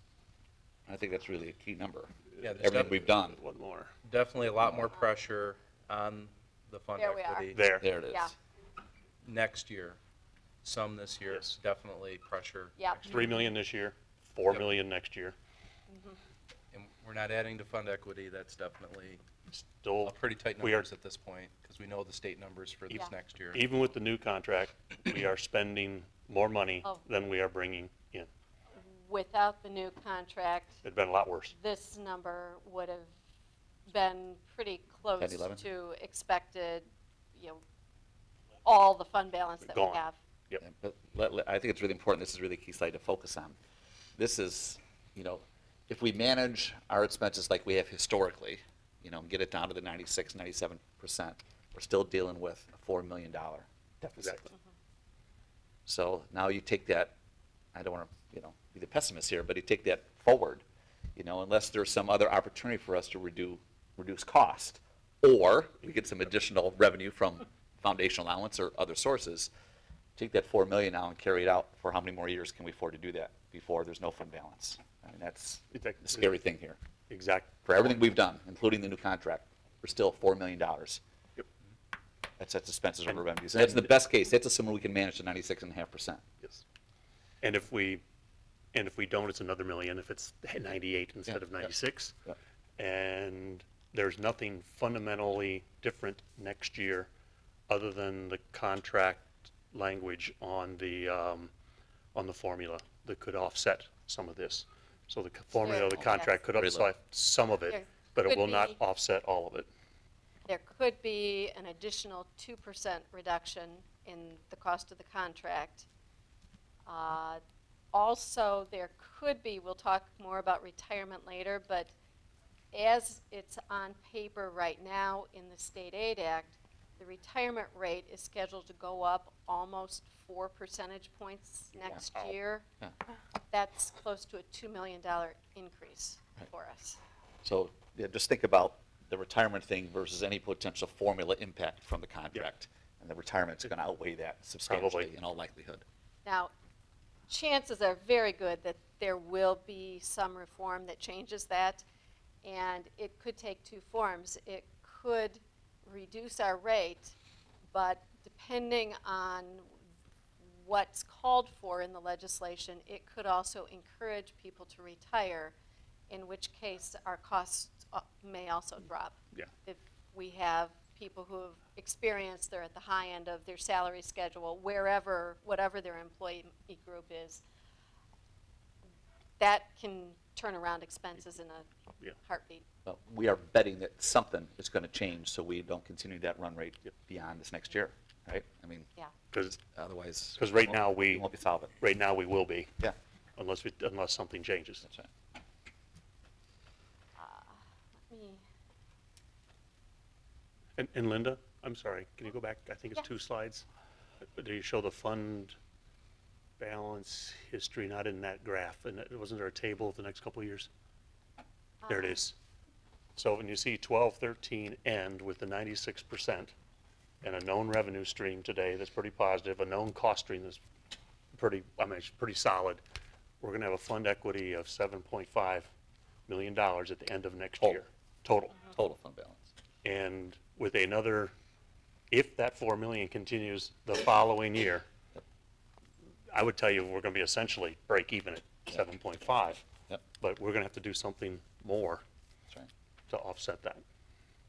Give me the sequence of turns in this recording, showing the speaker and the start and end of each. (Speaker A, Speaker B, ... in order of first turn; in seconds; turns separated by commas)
Speaker A: 0.9-3.4, Speaker B: 2.4-3.0, Speaker C: 2.6-3.9, Speaker B: 4.0-7.6, Speaker D: 7.0-8.3, Speaker C: 7.5-7.9, Speaker A: 7.8-8.3, Speaker B: 9.2-10.0, Speaker B: 10.6-13.5, Speaker D: 12.8-13.1, Speaker C: 13.1-15.4, Speaker D: 15.9-16.2, Speaker B: 16.7-19.2, Speaker C: 19.5-20.9, Speaker B: 20.0-23.7, Speaker C: 22.9-28.3, Speaker D: 28.8-30.8, Speaker C: 30.8-31.5, Speaker D: 31.5-33.1, Speaker D: 33.9-37.6, Speaker A: 35.2-35.6, Speaker D: 38.6-40.2, Speaker C: 39.7-40.6, Speaker A: 40.6-43.6, Speaker A: 44.2-54.5, Speaker A: 55.9-57.1, Speaker A: 57.8-60.6, Speaker A: 61.2-69.5, Speaker A: 70.2-76.8, Speaker C: 75.7-76.3, Speaker C: 77.1-77.5, Speaker A: 77.7-81.0, Speaker A: 82.4-86.2, Speaker C: 83.1-83.9, Speaker C: 87.4-88.0, Speaker C: 88.7-92.2, Speaker C: 92.8-97.1, Speaker C: 97.7-101.5, Speaker C: 102.2-109.7, Speaker D: 105.5-106.4, Speaker A: 106.0-106.9, Speaker D: 107.7-108.8, Speaker D: 110.5-115.9, Speaker D: 116.9-117.4, Speaker D: 117.9-121.9, Speaker D: 122.7-132.7, Speaker C: 131.8-132.4, Speaker D: 133.5-137.0, Speaker A: 137.4-145.8, Speaker C: 144.7-145.1, Speaker D: 146.2-146.5, Speaker D: 147.3-151.8, Speaker D: 152.4-157.2, Speaker D: 157.7-159.7, Speaker D: 160.5-165.6, Speaker D: 166.1-177.4, Speaker D: 179.4-182.6, Speaker A: 182.9-188.9, Speaker C: 189.3-189.6, Speaker A: 189.5-191.8, Speaker C: 190.4-191.3, Speaker C: 191.8-192.7, Speaker C: 193.4-194.8, Speaker D: 197.2-198.4, Speaker C: 200.8-203.7, Speaker C: 204.2-205.6, Speaker C: 206.6-210.7, Speaker D: 211.8-212.2, Speaker C: 211.9-212.4, Speaker C: 213.2-216.5, Speaker C: 217.2-220.6, Speaker C: 221.3-222.8, Speaker C: 223.4-225.7, Speaker C: 226.3-228.6, Speaker A: 228.6-229.5, Speaker C: 229.8-231.3, Speaker C: 232.1-234.9, Speaker C: 236.3-239.7, Speaker C: 240.2-242.0, Speaker C: 243.1-243.8